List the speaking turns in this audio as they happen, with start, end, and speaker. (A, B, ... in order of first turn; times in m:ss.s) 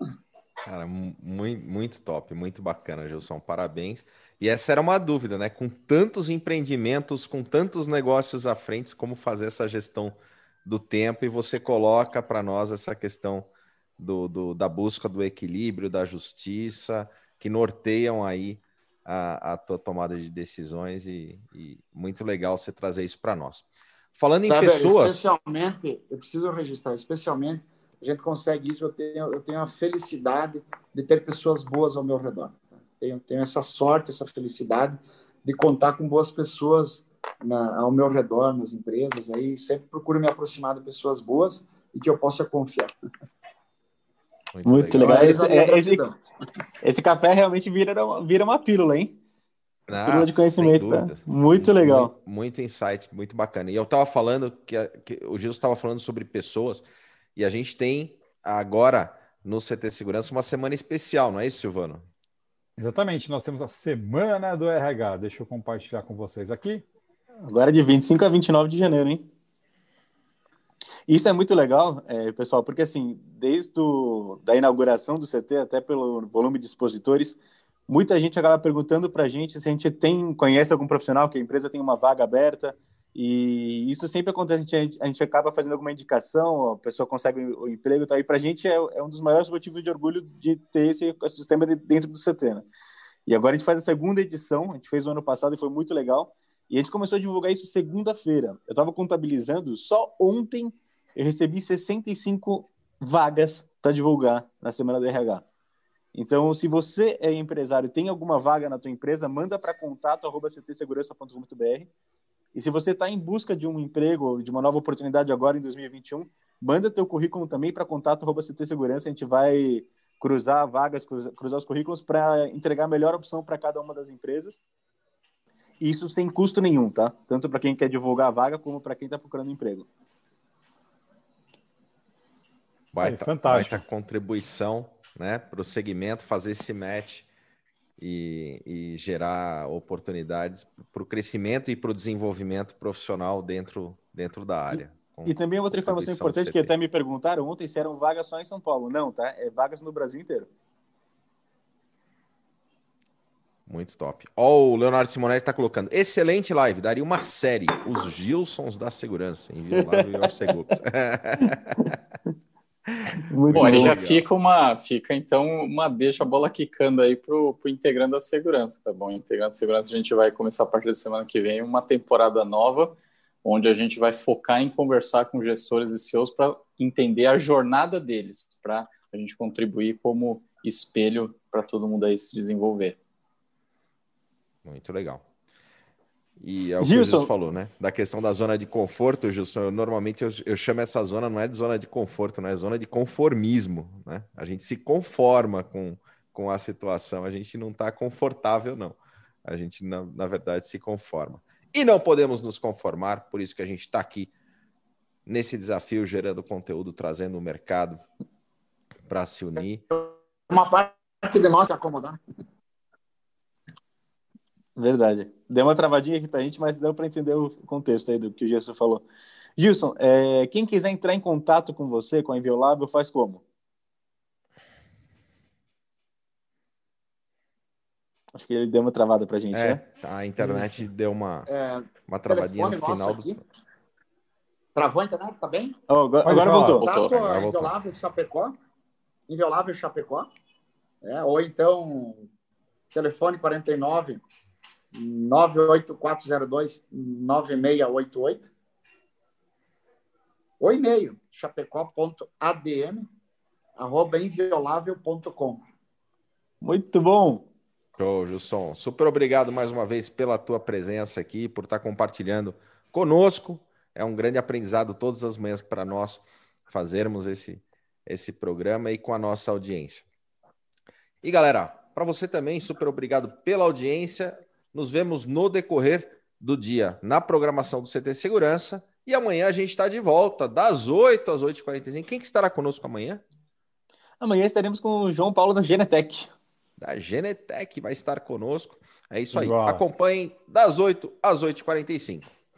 0:00.6-0:25.2 A
0:24.5-0:42.9 B
0:44.5-0:45.4 A
0:44.6-0:46.0 C
0:45.0-0:46.2 B
0:46.8-0:49.2 C
0:49.9-0:56.8 A
0:50.0-0:52.1 C
0:57.4-1:02.0 A
1:02.8-1:06.8 D
1:07.4-1:09.2 C
1:11.1-1:32.6 C
1:33.2-1:45.4 C
1:46.1-1:51.9 C
1:52.5-2:04.6 C
2:05.8-2:09.9 C
2:12.9-2:17.3 A
2:13.0-2:13.8 D
2:18.0-2:26.7 A
2:25.2-2:30.5 C
2:33.7-2:42.0 A
2:39.7-2:40.1 C
2:42.9-2:44.2 A
2:43.3-2:44.0 C
2:43.5-3:03.0 E
3:04.6-3:05.2 A
3:06.4-3:24.3 A
3:06.8-3:07.3 C
3:25.2-3:28.0 A
3:29.0-3:29.8 A
3:29.9-3:32.2 B
3:34.8-3:39.0 C
3:39.6-3:43.4 C
3:48.3-3:49.8 C
3:49.5-3:51.5 A
3:50.5-3:50.7 C
3:51.5-3:53.4 B
3:52.1-3:53.4 A
3:54.7-3:55.8 B
3:55.9-3:56.9 C
3:56.2-3:56.8 D
3:56.8-3:58.6 B
3:57.0-3:57.7 A
3:59.3-4:00.3 B
4:01.0-4:02.3 B
4:02.9-4:04.2 B
4:04.9-4:08.5 B
4:10.6-4:13.1 B
4:13.8-4:15.6 B
4:16.6-4:17.5 C
4:18.0-4:30.0 A
4:31.2-4:43.2 A
4:44.2-4:46.3 C
4:46.8-4:52.3 A
4:49.3-4:49.8 D